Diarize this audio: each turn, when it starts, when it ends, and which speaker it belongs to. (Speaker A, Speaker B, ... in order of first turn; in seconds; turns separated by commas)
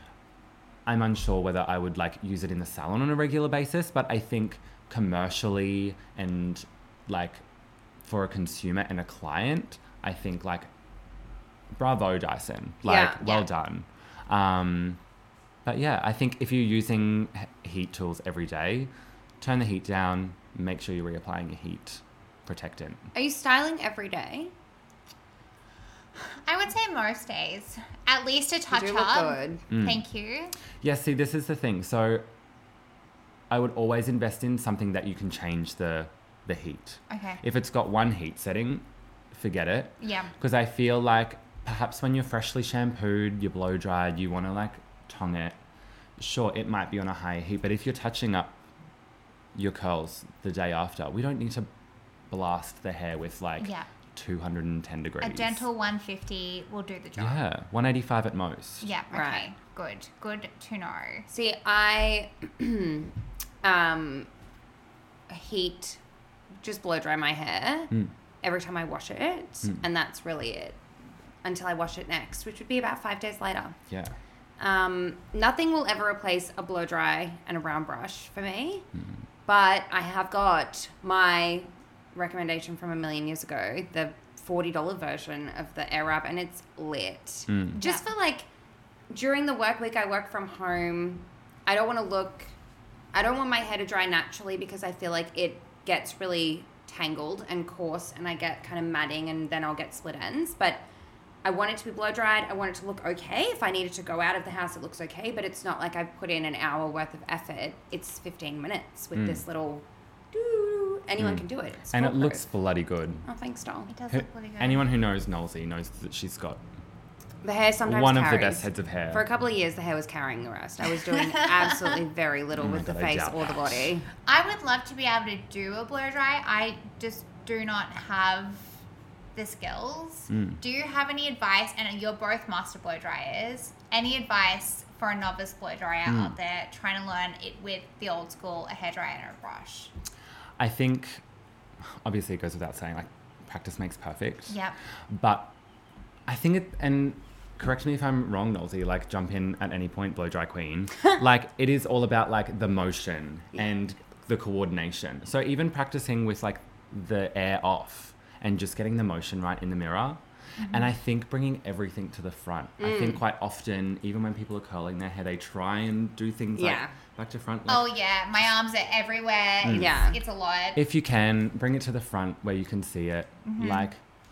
Speaker A: 0.9-7.4, Speaker A: 8.0-10.7, Speaker A: 11.7-15.0, Speaker B: 12.8-13.3, Speaker A: 15.6-18.9, Speaker A: 19.4-23.1, Speaker B: 23.1-24.5, Speaker C: 26.4-30.5, Speaker B: 28.7-29.6, Speaker A: 29.7-30.0, Speaker A: 30.8-32.2, Speaker A: 33.5-45.6, Speaker C: 37.1-37.4, Speaker C: 40.0-40.3, Speaker A: 46.2-48.6, Speaker A: 49.5-51.7, Speaker A: 52.3-55.6, Speaker C: 53.6-53.9, Speaker C: 55.2-57.4, Speaker A: 57.2-58.9, Speaker C: 58.8-61.3, Speaker B: 59.1-59.4, Speaker B: 61.3-63.1, Speaker B: 63.6-64.3, Speaker B: 65.3-66.0, Speaker B: 66.6-70.8, Speaker B: 71.4-73.8, Speaker A: 73.9-74.1, Speaker B: 74.6-78.9, Speaker B: 79.5-88.5, Speaker A: 87.5-87.8, Speaker C: 87.8-88.1, Speaker B: 89.1-92.5, Speaker B: 93.1-100.8, Speaker B: 101.4-112.4, Speaker A: 109.1-109.4, Speaker A: 111.2-113.2, Speaker B: 113.2-113.9, Speaker C: 113.9-114.9, Speaker A: 114.1-116.6, Speaker B: 117.4-124.1, Speaker A: 117.8-119.2, Speaker A: 122.5-123.9, Speaker C: 124.3-128.7, Speaker C: 129.3-139.9, Speaker A: 130.3-130.6, Speaker A: 136.1-136.4, Speaker A: 140.6-141.2, Speaker A: 142.0-144.6, Speaker C: 144.5-144.8, Speaker A: 145.1-145.5, Speaker A: 146.3-167.9, Speaker C: 160.6-160.9, Speaker B: 162.8-163.2, Speaker B: 166.6-166.9, Speaker C: 167.7-170.8, Speaker A: 169.6-170.0, Speaker B: 169.7-170.2, Speaker A: 170.8-174.0, Speaker C: 173.4-173.9